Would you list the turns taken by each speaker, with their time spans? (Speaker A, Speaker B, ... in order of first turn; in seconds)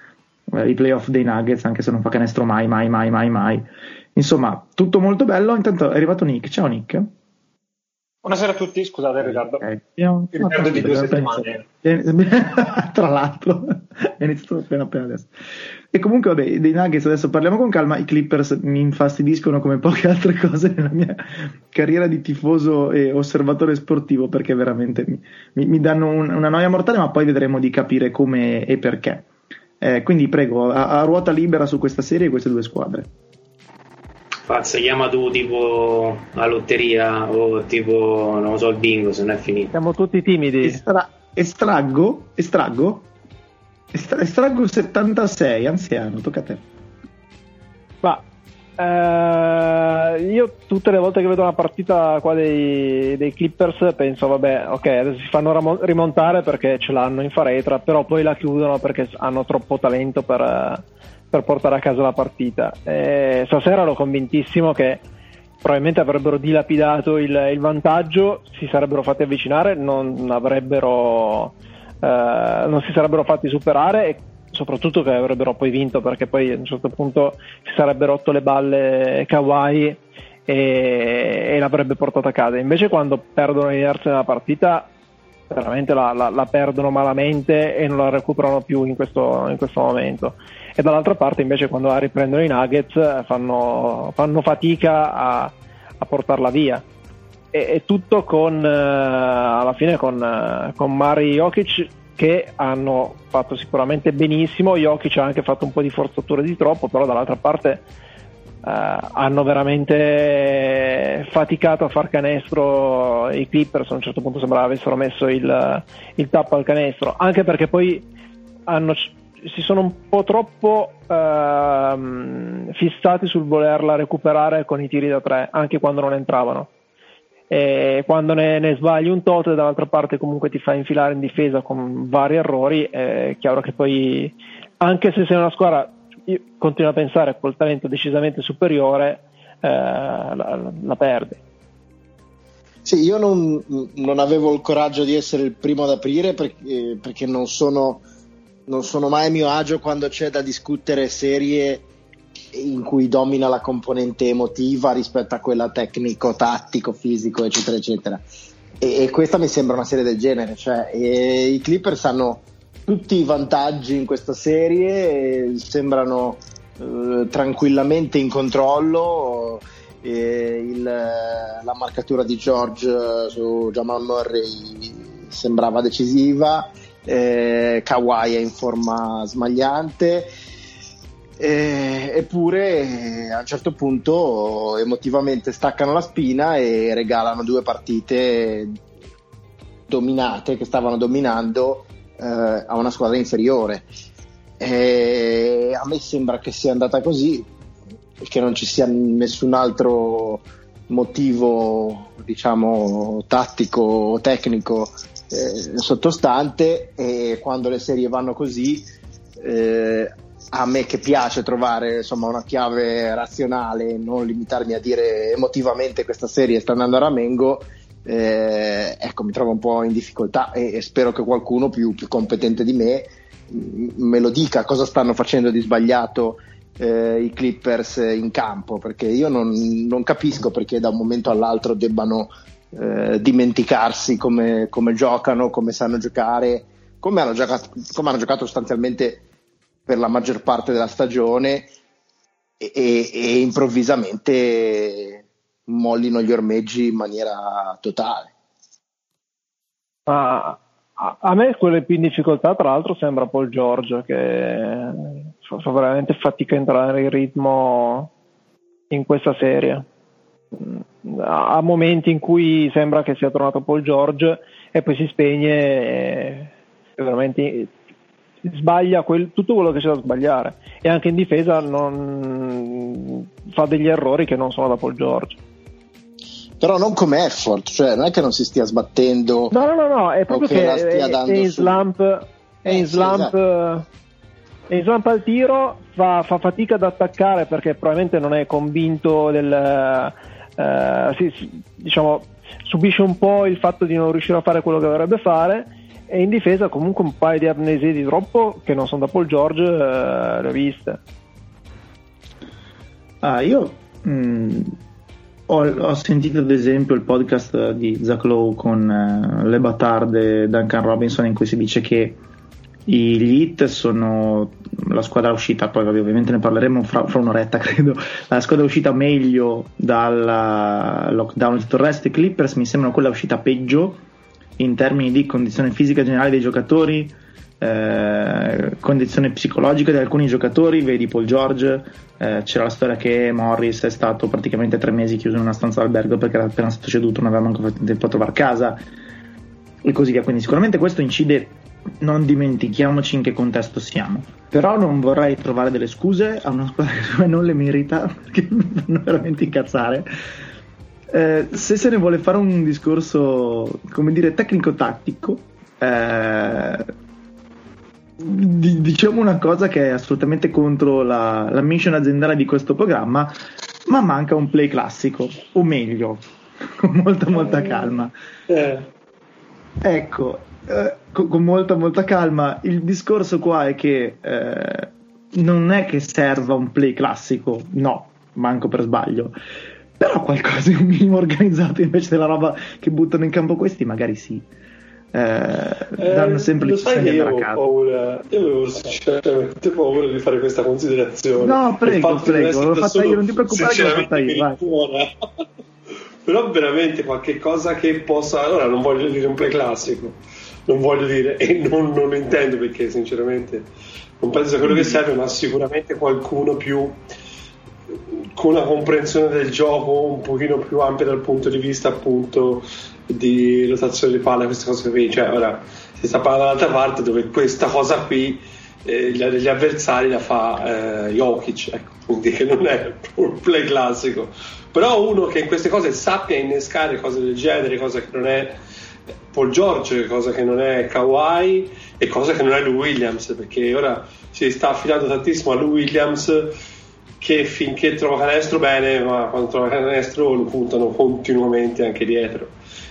Speaker A: 0.5-7.1, 9.2-15.3, 15.9-29.2, 29.8-33.1, 40.6-43.1, 43.9-46.6, 303.2-304.8, 305.5-312.2, 312.9-324.0, 324.6-338.8, 339.8-350.1, 351.1-356.9, 358.2-363.3, 363.9-366.2, 366.8-368.1, 369.8-379.4, 380.0-384.5, 385.1-387.6, 391.4-394.6
Speaker B: 8.2-9.7, 10.3-11.6
Speaker C: 34.5-39.7
Speaker D: 39.7-40.8, 48.8-65.0, 65.6-84.9, 85.5-96.8, 97.5-107.8, 108.6-118.0, 118.7-126.7, 127.5-141.4, 250.1-258.1, 258.9-259.8, 260.6-267.7, 268.4-275.4, 279.5-283.9, 284.7-301.0
Speaker E: 142.8-148.0, 148.7-151.8, 152.5-158.2, 158.8-180.3, 181.4-188.8, 189.9-193.9, 194.6-197.5, 198.2-208.8, 209.4-239.2, 239.9-241.7, 242.6-248.3, 276.6-279.5, 280.3-281.8, 282.7-283.3
Speaker F: 368.5-368.9, 386.0-395.4, 396.2-403.7, 404.2-407.0, 408.3-428.6, 429.3-436.5, 437.2-442.5